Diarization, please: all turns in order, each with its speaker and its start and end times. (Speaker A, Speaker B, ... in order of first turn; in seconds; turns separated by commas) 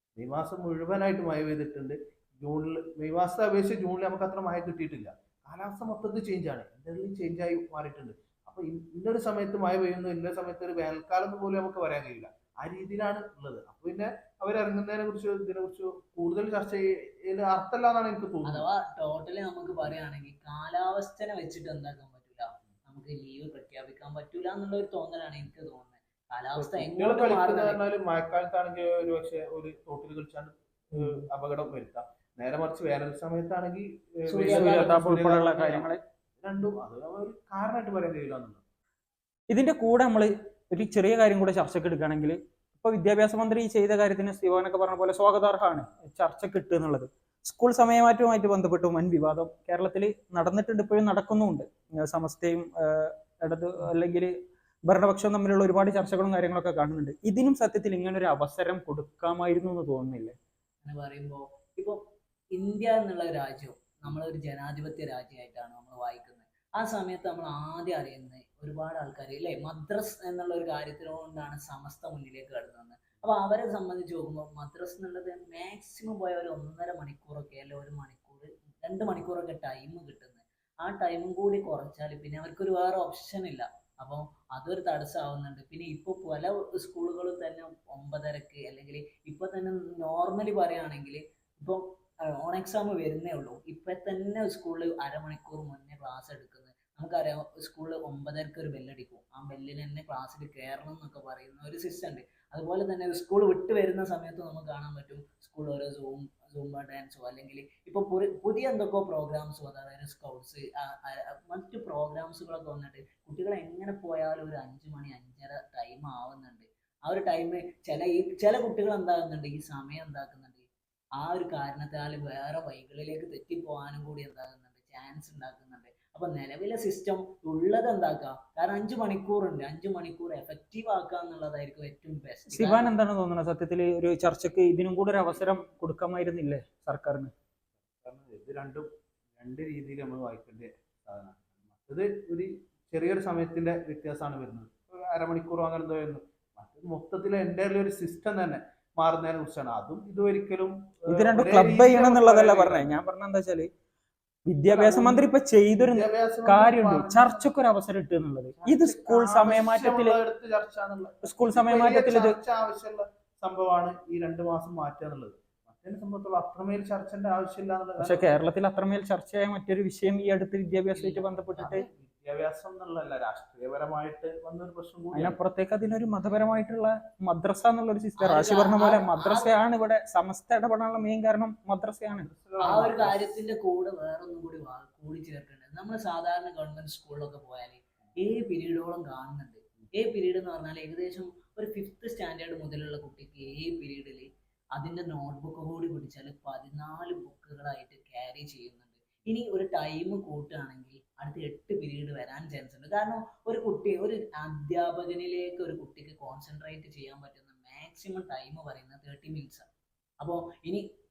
Speaker A: 0.2-18.6, Speaker B: 18.5-27.8, Speaker A: 26.6-38.6, Speaker C: 31.0-31.2, Speaker B: 34.3-35.0, Speaker C: 34.5-36.0, Speaker C: 39.5-54.3, Speaker C: 54.9-60.4, Speaker B: 60.8-62.0, Speaker B: 62.5-120.7, Speaker B: 121.2-132.9, Speaker C: 132.5-137.3, Speaker A: 138.0-153.0, Speaker C: 151.1-153.7, Speaker C: 154.5-160.2, Speaker A: 154.7-157.5, Speaker A: 158.5-168.3, Speaker C: 161.2-162.4, Speaker C: 168.0-171.8, Speaker B: 170.9-171.8, Speaker A: 171.6-175.4, Speaker C: 175.1-182.3, Speaker B: 178.2-179.6, Speaker A: 182.1-183.4, Speaker B: 182.6-209.7, Speaker B: 210.2-210.8